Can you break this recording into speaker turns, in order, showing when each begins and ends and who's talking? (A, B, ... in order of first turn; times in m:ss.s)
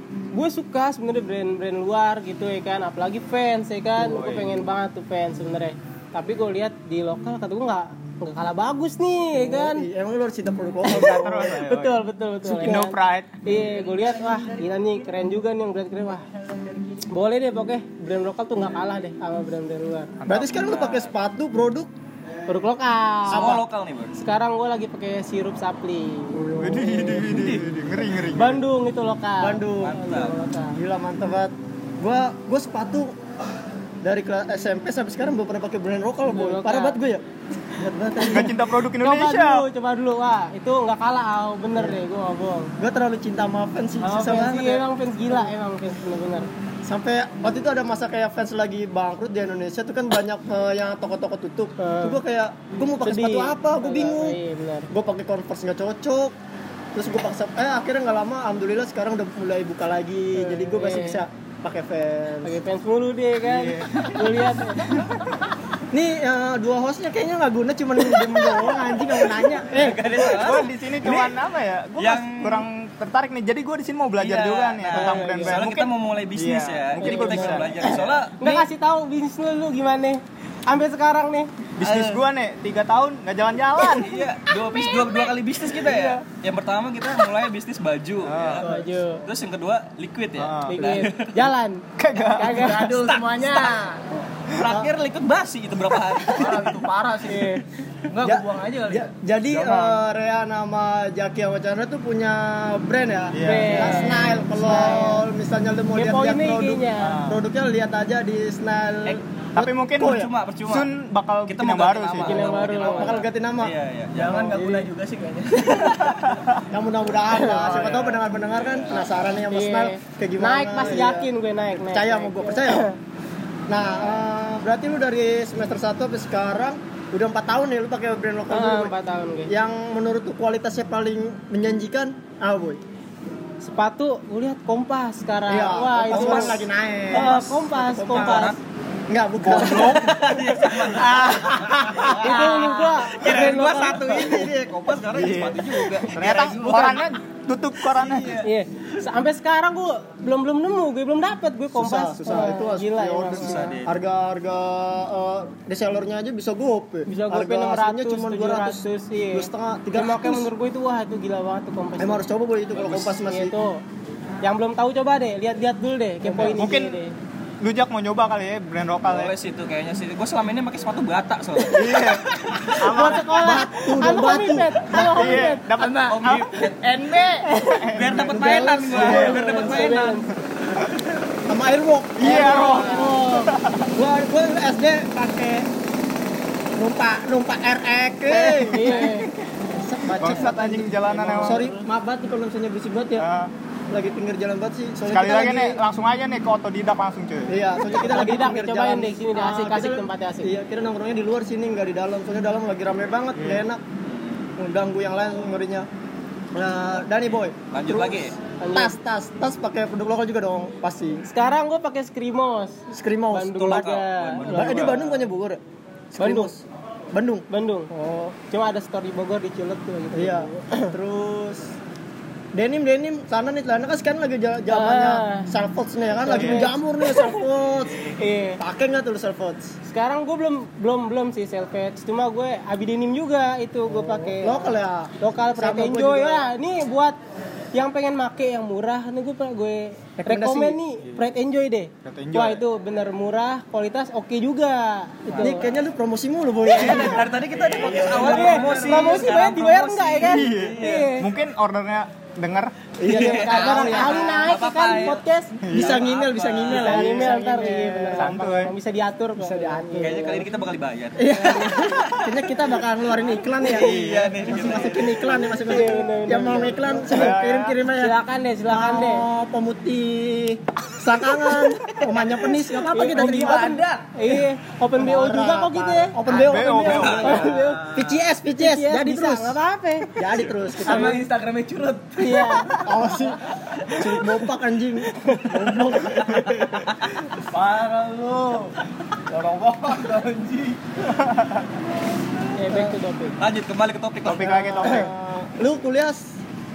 0:00.3-0:09.8 A
0:04.0-0:04.6 B
0:09.4-0:11.6 C
0:10.9-0:13.4 B
0:10.9-0:16.2 A
0:17.1-0:20.1 A
0:20.2-0:20.7 B
0:20.3-0:21.9 C
0:20.5-0:21.1 D
0:22.5-0:23.6 A
0:23.3-0:24.2 D
0:23.3-0:23.6 C
0:24.1-0:30.8 A
0:26.4-0:27.4 C
0:26.6-0:28.6 B
0:29.4-0:30.0 C
0:29.8-0:30.4 D
0:30.7-0:33.1 C
0:34.0-0:37.2 C
0:36.3-0:37.0 A
0:37.7-0:38.6 C
0:38.2-0:42.7 A
0:38.2-0:39.6 B
0:42.8-0:45.5 C
0:44.0-0:46.5 A
0:46.8-0:54.4 C
0:51.8-0:52.2 A
0:53.0-0:54.9 A
0:54.9-0:56.3 C
0:56.9-1:02.6 C
1:00.4-1:01.2 A
1:02.4-1:05.0 A
1:03.4-1:04.3 B
1:05.9-1:10.2 C
1:09.7-1:11.3 D
1:10.0-1:17.8 B
1:12.0-1:12.7 D
1:14.2-1:18.6 D
1:14.9-1:15.6 A
1:17.0-1:21.5 A
1:21.8-1:24.3 B
1:21.8-1:22.2 D
1:23.8-1:28.6 D
1:25.8-1:26.1 B
1:28.2-1:28.6 B
1:28.6-1:29.2 A
1:29.2-1:31.5 D
1:30.4-1:30.8 B
1:30.7-1:31.8 A
1:32.0-1:32.8 B
1:32.3-1:33.0 A
1:32.5-1:34.1 E
1:32.9-1:33.8 D
1:34.5-1:36.7 D
1:36.2-1:37.6 E
1:37.3-1:37.6 A
1:38.1-1:39.1 E
1:38.2-1:50.3 C
1:39.5-1:40.0 B
1:43.3-1:44.2 B
1:43.4-1:45.2 A
1:45.9-1:47.2 A
1:49.5-1:52.4 B
1:50.0-1:50.9 D
1:51.5-1:54.5 D
1:52.2-1:53.2 A
1:52.6-1:53.7 C
1:54.1-1:56.2 E
1:54.5-1:54.8 C
1:56.7-2:02.9 C
1:57.4-1:58.2 E
1:58.5-1:59.2 D
1:59.5-2:03.0 A
2:03.7-2:08.9 C
2:08.5-2:09.5 A
2:09.5-2:12.8 C
2:13.6-2:18.6 A
2:15.5-2:18.5 C
2:16.1-2:17.4 D
2:18.0-2:18.6 D
2:19.1-2:20.3 C
2:19.4-2:20.2 B
2:19.5-2:27.1 D
2:22.0-2:24.6 E
2:22.1-2:24.5 A
2:25.1-2:28.4 B
2:27.9-2:28.5 D
2:28.4-2:33.8 A
2:31.7-2:40.5 C
2:33.3-2:34.0 D
2:37.0-2:42.2 A
2:42.0-2:43.5 C
2:42.7-2:43.1 D
2:43.2-2:43.8 A
2:44.4-2:47.1 A
2:46.2-2:46.7 C
2:46.4-2:47.0 B
2:47.6-2:49.3 B
2:49.1-2:52.2 D
2:51.7-2:53.4 B
2:52.7-2:55.6 A
2:53.2-2:54.9 C
2:54.9-2:58.4 B
2:55.7-2:57.4 E
2:56.1-2:57.2 D
2:57.4-2:57.9 A
2:57.9-3:00.2 D
2:58.2-2:59.5 C
2:58.9-3:00.3 A
2:58.9-2:59.4 B
2:59.1-3:00.1 E
3:01.4-3:05.7 C
3:02.2-3:03.9 B
3:02.2-3:03.5 A
3:06.8-3:13.2 C
3:08.3-3:09.2 B
3:08.7-3:09.3 A
3:10.2-3:11.7 B
3:11.0-3:11.8 A
3:13.2-3:13.5 B
3:13.9-3:15.8 C
3:15.1-3:17.6 B
3:17.5-3:23.8 C
3:17.8-3:20.5 A
3:23.4-3:23.6 B
3:24.0-3:24.5 D
3:24.6-3:25.9 C
3:26.5-3:31.2 C
3:27.7-3:28.3 D
3:28.6-3:29.0 A
3:31.2-3:35.2 A
3:32.9-3:33.8 C
3:33.6-3:34.9 D
3:34.4-3:35.6 C
3:34.6-3:34.9 B
3:36.1-3:38.4 C
3:36.2-3:36.5 A
3:37.5-3:37.9 A
3:38.4-3:40.9 A
3:40.1-3:41.7 C
3:42.5-3:48.1 C
3:44.7-3:45.5 A
3:46.2-3:47.4 A
3:46.3-3:46.6 B
3:48.2-3:48.6 A
3:48.6-3:49.7 C
3:49.8-3:57.2 A
3:53.9-3:56.5 C
3:57.7-4:05.6 A
4:00.2-4:00.8 C
4:02.0-4:02.6 B
4:05.3-4:05.7 D
4:05.3-4:09.2 C
4:06.6-4:11.2 D
4:06.8-4:07.1 A
4:07.8-4:08.9 B
4:08.0-4:11.3 A
4:10.2-4:12.7 B
4:13.0-4:14.4 C
4:13.0-4:15.6 A
4:13.1-4:15.2 D
4:15.6-4:16.1 B
4:15.7-4:18.3 C
4:15.7-4:17.0 D
4:16.7-4:20.5 A
4:16.8-4:18.7 B
4:19.4-4:20.2 C
4:20.0-4:22.7 D
4:21.2-4:22.0 A
4:21.2-4:33.8 C
4:23.6-4:25.4 D
4:23.7-4:24.5 B
4:25.5-4:27.4 A
4:27.0-4:27.8 B
4:27.9-4:29.2 A
4:32.9-4:36.2 A
4:33.0-4:34.0 E
4:35.0-4:39.6 C
4:36.3-4:38.1 E
4:36.4-4:37.4 B
4:36.8-4:37.5 D
4:37.2-4:37.9 A
4:38.6-4:40.1 A
4:40.1-4:41.2 C
4:40.8-4:42.6 E
4:40.9-4:41.2 A
4:42.2-4:42.7 A
4:42.8-4:43.4 C
4:44.0-4:46.8 C
4:47.4-4:48.8 E
4:49.3-4:50.8 E
4:51.2-4:51.6 B
4:52.6-4:53.4 A
4:53.4-4:54.9 D
4:54.2-4:55.1 B
4:54.4-4:56.4 C